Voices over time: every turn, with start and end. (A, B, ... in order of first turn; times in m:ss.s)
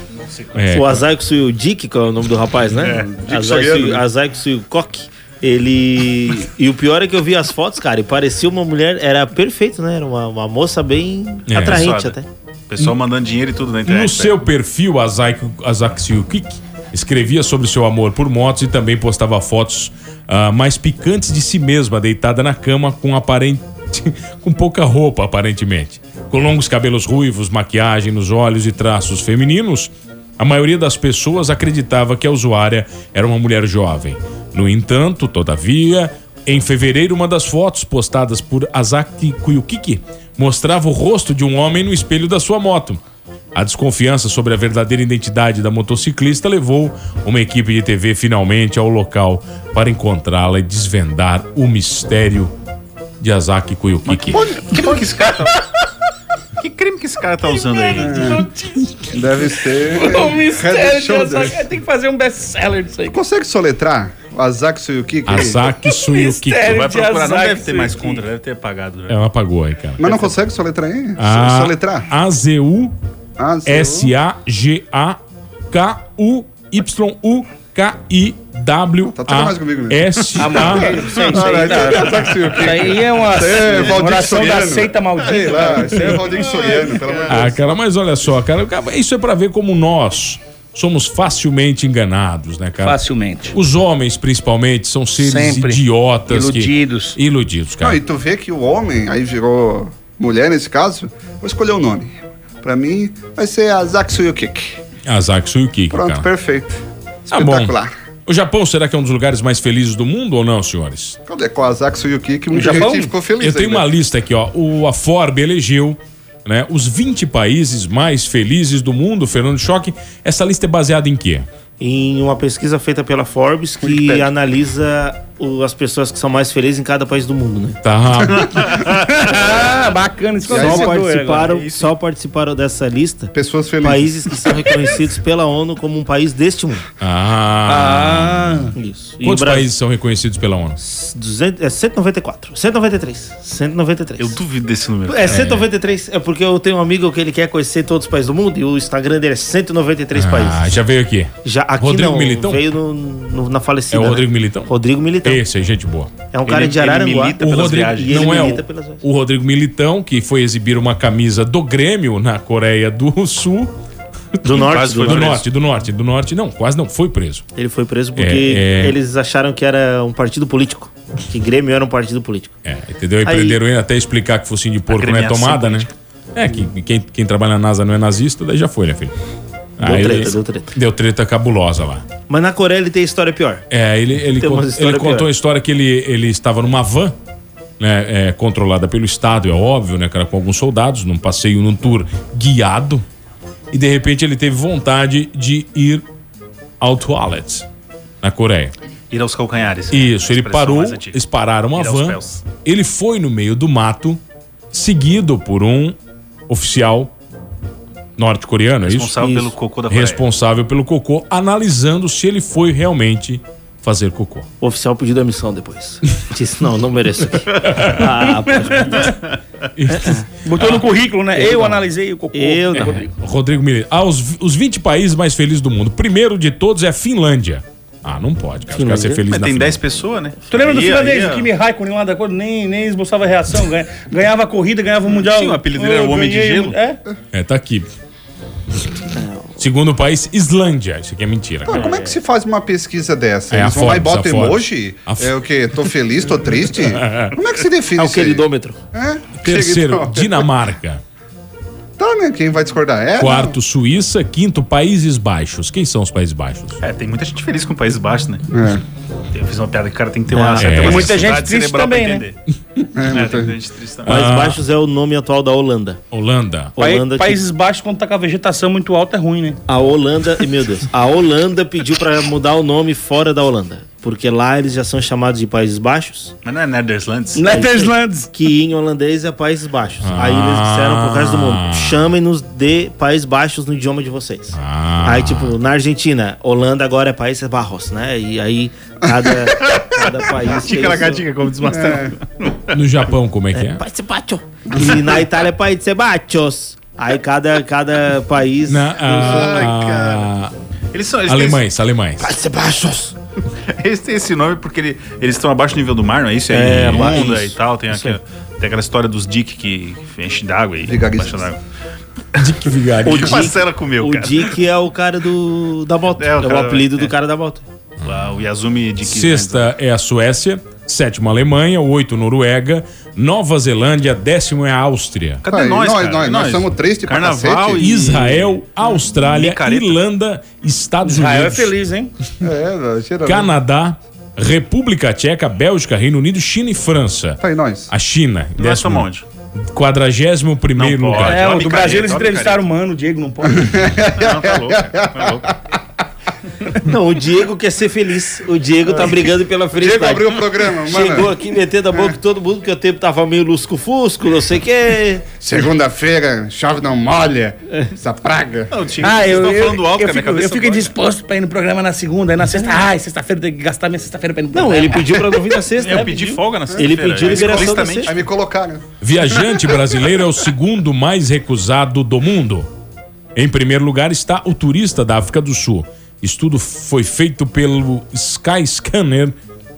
0:00.5-0:01.0 A
0:00.7-0:12.2 B
0:02.8-0:03.1 C
0:02.9-0:04.0 D
0:11.5-0:11.9 A
0:11.6-0:12.1 C
0:12.7-0:14.4 C
0:13.8-0:43.0 A
0:43.5-0:52.5 A
0:53.2-0:54.4 A
0:54.1-0:55.6 C
0:56.6-0:58.4 C
0:57.5-1:03.2 E
0:58.0-0:58.4 D
0:59.1-1:01.6 D
1:03.1-1:05.8 D
1:05.2-1:06.7 A
1:05.9-1:08.2 E
1:06.6-1:09.2 C
1:09.1-1:10.3 A
1:10.0-1:12.1 D
1:11.2-1:12.9 A
1:13.4-1:14.1 D
1:13.6-1:21.4 A
1:19.1-1:27.6 D
1:20.3-1:26.4 E
1:27.3-1:33.0 A
1:32.8-1:33.5 E
1:33.5-1:38.0 A
1:35.2-1:37.2 E
1:37.8-1:44.8 D
1:45.0-1:46.2 A
1:45.9-1:47.9 D
1:47.3-1:51.2 A
1:51.2-1:53.9 D
1:52.5-1:53.1 E
1:52.7-2:01.4 A
2:01.8-2:07.8 B
2:03.9-2:04.2 C
2:07.8-2:08.8 A
2:08.7-2:11.5 E
2:10.5-2:16.8 B
2:10.5-2:10.9 D
2:11.4-2:11.9 C
2:13.3-2:14.2 D
2:17.0-2:18.7 A
2:17.6-2:18.7 E
2:18.8-2:19.7 B
2:19.2-2:20.8 A
2:20.8-2:24.4 B
2:24.2-2:25.4 C
2:25.0-2:30.7 B
2:25.2-2:25.6 A
2:30.1-2:32.6 A
2:31.4-2:35.4 B
2:33.9-2:34.7 A
2:35.2-2:36.1 A
2:36.3-2:39.0 B
2:36.4-2:38.6 C
2:37.4-2:43.7 A
2:44.4-2:47.4 A
2:44.4-2:45.4 B
2:44.5-2:45.4 C
2:47.5-2:52.6 B
2:48.2-2:49.0 A
2:52.6-2:59.1 A
2:53.2-2:53.6 B
2:54.9-2:55.9 C
2:59.8-3:02.0 A
2:59.8-3:00.7 B
3:02.3-3:03.6 B
3:03.7-3:07.1 A
3:04.3-3:05.3 B
3:07.8-3:13.0 A
3:13.7-3:16.0 A
3:16.8-3:17.6 A
3:18.2-3:18.7 A
3:19.1-3:21.2 C
3:19.9-3:24.2 A
3:21.7-3:22.4 C
3:24.7-3:26.0 A
3:26.5-3:27.1 A
3:28.2-3:29.2 A
3:28.8-3:30.2 C
3:29.1-3:29.5 B
3:29.9-3:34.5 A
3:34.6-3:39.0 B
3:37.7-3:38.0 A
3:38.3-3:39.1 E
3:39.7-3:40.8 A
3:39.9-3:40.2 B
3:40.4-3:43.1 E
3:41.3-3:43.0 B
3:42.8-3:49.8 A
3:48.7-3:49.2 B
3:49.3-3:51.5 C
3:50.5-3:57.0 E
3:55.2-3:56.8 C
3:57.3-3:57.9 A
3:59.1-3:59.6 B
3:59.6-4:01.8 A
4:01.7-4:10.5 D
4:01.7-4:02.2 B
4:03.5-4:05.3 A
4:06.9-4:07.3 A
4:08.0-4:08.8 B
4:09.4-4:11.0 A
4:12.0-4:13.6 D
4:13.2-4:16.8 A
4:16.8-4:18.5 C
4:18.5-4:18.8 D
4:19.3-4:22.4 C
4:20.3-4:20.8 B
4:20.6-4:21.3 A
4:20.7-4:22.2 E
4:22.9-4:23.5 D
4:23.1-4:24.2 C
4:24.0-4:24.6 A
4:24.0-4:26.0 B
4:26.1-4:26.7 A
4:26.8-4:27.4 B
4:26.8-4:29.6 E
4:29.7-4:36.3 B
4:36.4-4:37.4 C
4:37.3-4:38.3 E
4:37.4-4:51.3 B
4:40.0-4:42.0 A
4:44.5-4:45.5 A
4:49.6-4:52.7 C
4:51.7-4:52.1 D
4:52.7-4:53.8 A
4:53.5-5:00.3 B
4:58.7-5:00.5 A
4:59.1-4:59.9 C
5:00.9-5:01.6 C
5:01.2-5:02.3 A
5:02.2-5:03.2 B
5:03.7-5:11.6 C
5:06.5-5:08.2 B
5:10.8-5:11.5 D
5:12.4-5:13.4 A
5:13.0-5:14.6 C
5:13.0-5:17.6 B
5:16.2-5:17.1 C
5:18.0-5:18.4 A
5:18.0-5:19.7 C
5:19.0-5:25.4 A
5:25.4-5:30.0 C
5:25.5-5:27.8 D
5:27.8-5:31.7 A
5:31.0-5:32.1 E
5:32.4-5:33.6 D
5:33.2-5:39.1 A
5:37.4-5:37.9 D
5:38.6-5:39.2 C
5:39.6-5:41.5 A
5:40.8-5:42.6 C
5:41.2-5:43.7 E
5:43.5-5:45.4 D
5:44.2-5:45.5 C
5:46.8-5:55.5 B
5:49.7-5:51.3 D
5:55.4-5:58.7 D
5:58.7-6:00.9 C
5:59.0-6:05.2 E
6:04.5-6:08.1 B
6:05.8-6:08.2 C
6:05.9-6:06.4 E
6:06.8-6:08.8 D
6:09.0-6:12.7 A
6:09.4-6:09.8 C
6:13.3-6:19.3 A